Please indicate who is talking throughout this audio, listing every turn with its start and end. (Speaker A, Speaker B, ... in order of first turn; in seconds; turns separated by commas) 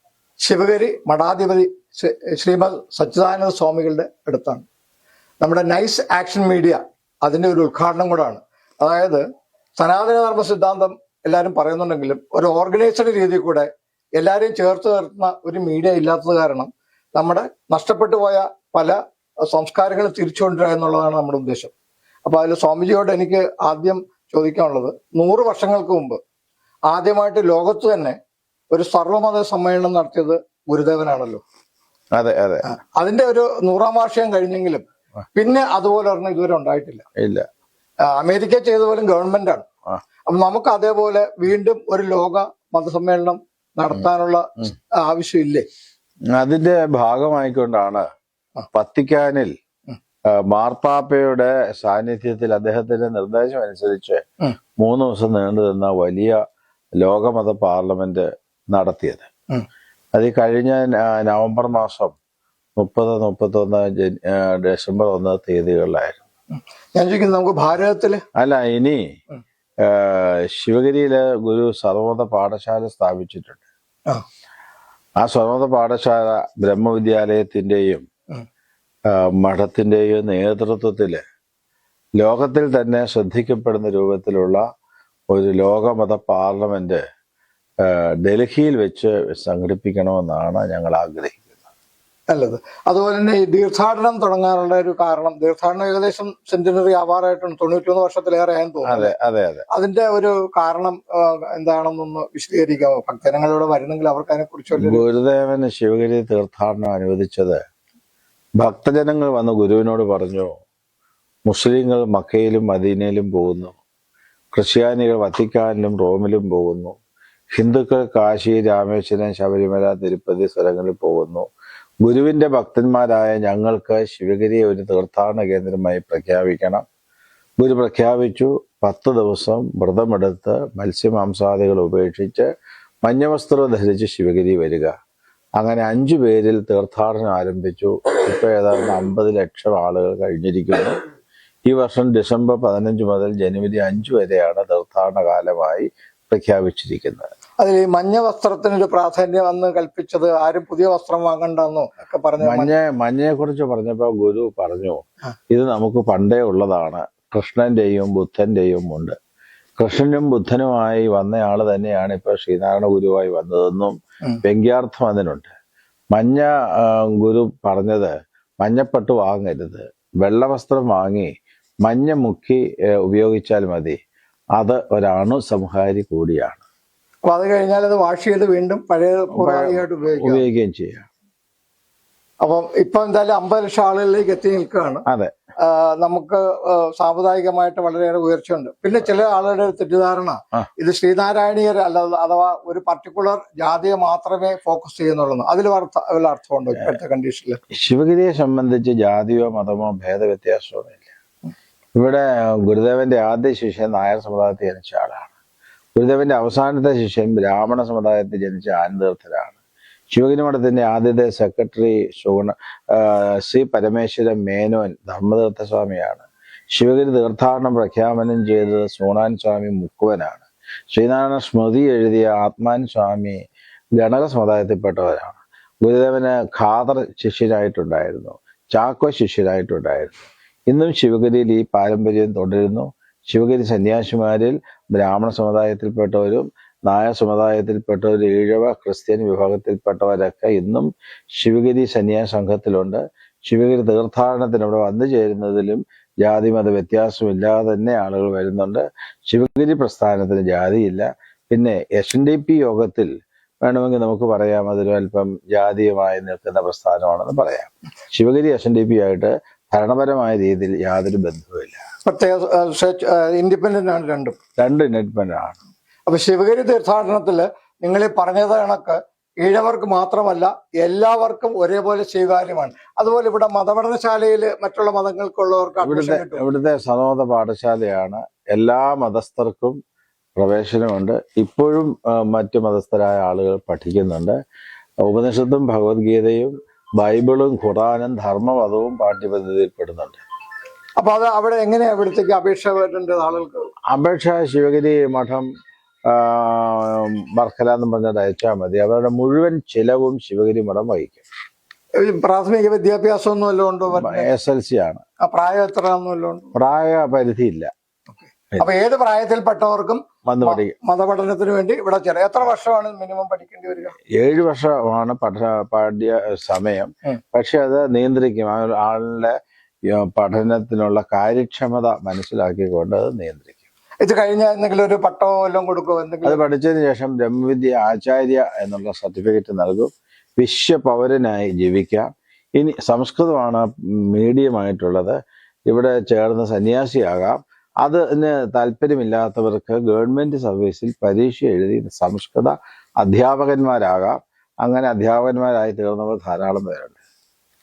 Speaker A: 0.4-4.7, Speaker A: 5.4-9.2, Speaker A: 9.8-21.7, Speaker A: 22.2-26.2, Speaker A: 26.9-28.2, Speaker A: 28.7-31.4, Speaker B: 32.1-32.7, Speaker A: 32.6-37.0, Speaker B: 37.2-37.5, Speaker A: 38.0-39.7, Speaker A: 40.3-45.6, Speaker B: 46.3-48.0, Speaker B: 48.7-49.5, Speaker B: 50.3-54.2, Speaker B: 54.8-56.4, Speaker B: 57.0-59.3, Speaker B: 60.1-62.1, Speaker B: 62.8-66.2, Speaker A: 66.5-68.2, Speaker B: 68.3-69.0, Speaker B: 69.8-73.6, Speaker B: 75.2-78.0, Speaker B: 79.1-81.2, Speaker B: 82.2-84.6, Speaker B: 85.3-87.0, Speaker B: 87.8-91.4, Speaker A: 92.3-99.1, Speaker B: 98.8-99.6, Speaker A: 99.7-105.0, Speaker B: 104.8-107.6, Speaker B: 108.6-110.5, Speaker B: 111.5-113.8, Speaker B: 114.5-116.9, Speaker B: 117.5-121.4, Speaker B: 122.0-126.8, Speaker B: 127.6-132.5, Speaker B: 133.0-134.9, Speaker B: 135.6-141.0, Speaker B: 141.7-147.3, Speaker A: 147.6-152.7, Speaker B: 152.4-159.1, Speaker B: 159.8-165.5, Speaker B: 166.1-171.3, Speaker B: 171.8-174.0, Speaker B: 174.6-176.6, Speaker A: 177.3-180.4, Speaker B: 179.3-181.1, Speaker A: 182.4-185.0, Speaker B: 185.1-185.3, Speaker A: 185.6-197.6, Speaker B: 197.7-201.0, Speaker B: 201.9-205.3, Speaker B: 205.9-209.6, Speaker B: 210.1-223.4, Speaker B: 224.0-253.1, Speaker B: 253.6-261.8, Speaker A: 262.0-264.4, Speaker B: 264.6-265.6, Speaker A: 266.1-276.4, Speaker B: 275.8-279.8, Speaker B: 280.4-284.3, Speaker B: 285.0-290.2, Speaker A: 291.0-293.6, Speaker B: 293.9-295.5, Speaker B: 296.1-301.2, Speaker A: 302.0-304.3, Speaker B: 303.9-305.0, Speaker A: 305.2-306.5, Speaker B: 306.5-307.7, Speaker A: 308.6-313.9, Speaker B: 310.2-310.7, Speaker B: 314.1-319.3, Speaker B: 319.9-323.5, Speaker A: 324.0-326.4, Speaker B: 326.2-335.1, Speaker B: 335.7-347.0